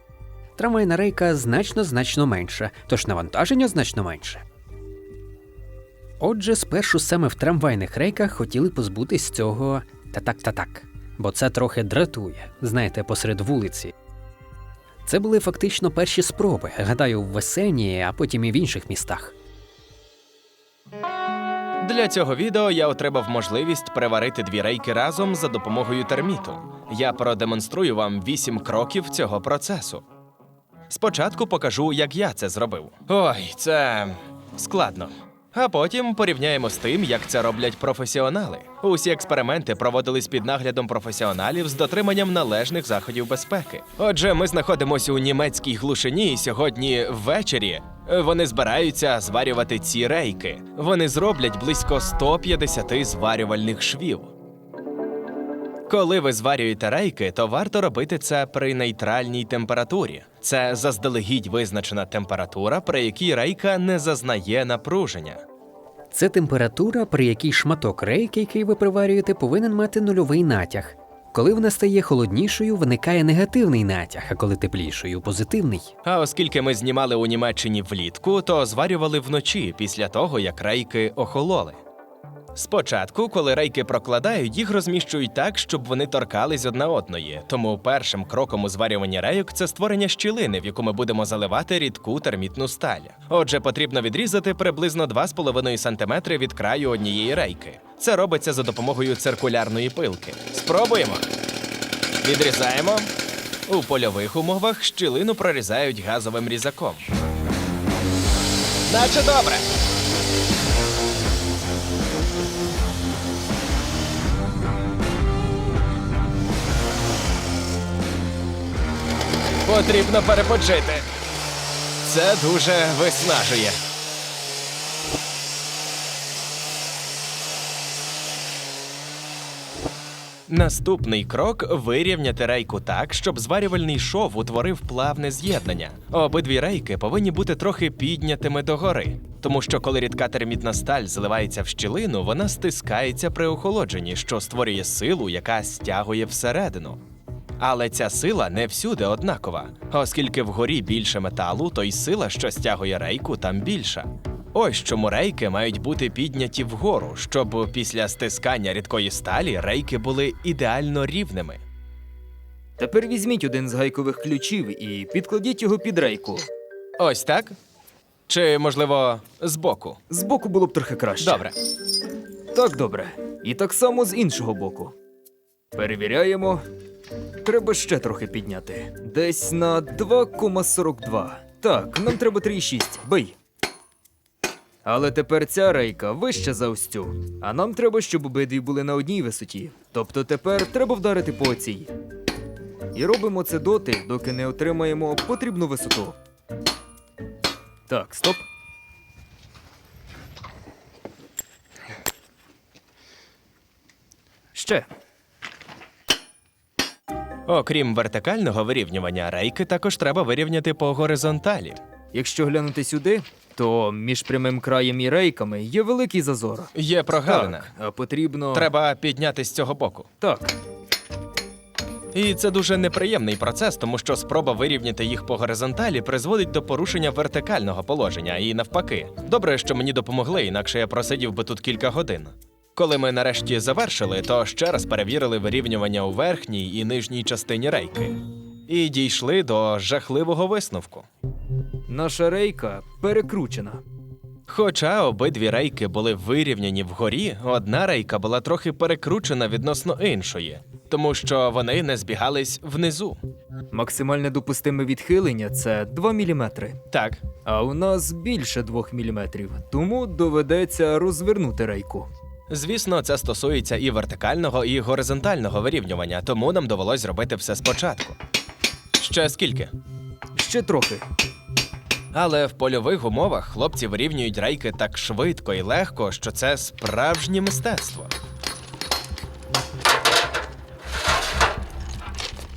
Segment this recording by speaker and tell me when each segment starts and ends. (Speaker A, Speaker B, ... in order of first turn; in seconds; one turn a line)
Speaker A: 0.6-4.4
Speaker A: 6.2-13.9
Speaker A: 15.1-19.4
Speaker B: 21.8-30.0
Speaker B: 30.9-54.3
Speaker B: 55.9-65.4
Speaker A: 66.1-75.9
Speaker B: 76.0-81.8
Speaker B: 82.5-101.3
Speaker B: 102.2-103.1
Speaker B: 103.7-107.0
Speaker B: 108.9-109.7
Speaker B: 119.7-121.1
Speaker B: 122.0-123.8
Speaker B: 130.5-147.0
Speaker B: 147.6-161.6
Speaker C: 162.8-166.5
Speaker B: 167.0-167.6
Speaker B: 168.3-170.0
Speaker C: 170.1-171.4
Speaker B: 171.2-171.6
Speaker C: 172.5-174.9
Speaker C: 175.7-176.6
Speaker C: 177.4-183.4
Speaker C: 184.8-191.9
Speaker C: 192.9-196.2
Speaker C: 197.9-198.4
Speaker C: 204.5-204.9
Speaker B: 207.5-211.8
Speaker C: 212.1-218.7
Speaker B: 216.7-217.7
Speaker B: 218.5-220.1
Speaker C: 220.2-220.5
Speaker B: 222.1-241.1
Speaker C: 241.9-243.8
Speaker B: 244.5-253.2
Speaker C: 253.7-256.8
Speaker B: 256.9-257.2
Speaker C: 257.4-262.1
Speaker B: 262.5-268.2
Speaker B: 269.0-269.7
Speaker C: 270.3-271.0
Speaker B: 272.1-278.1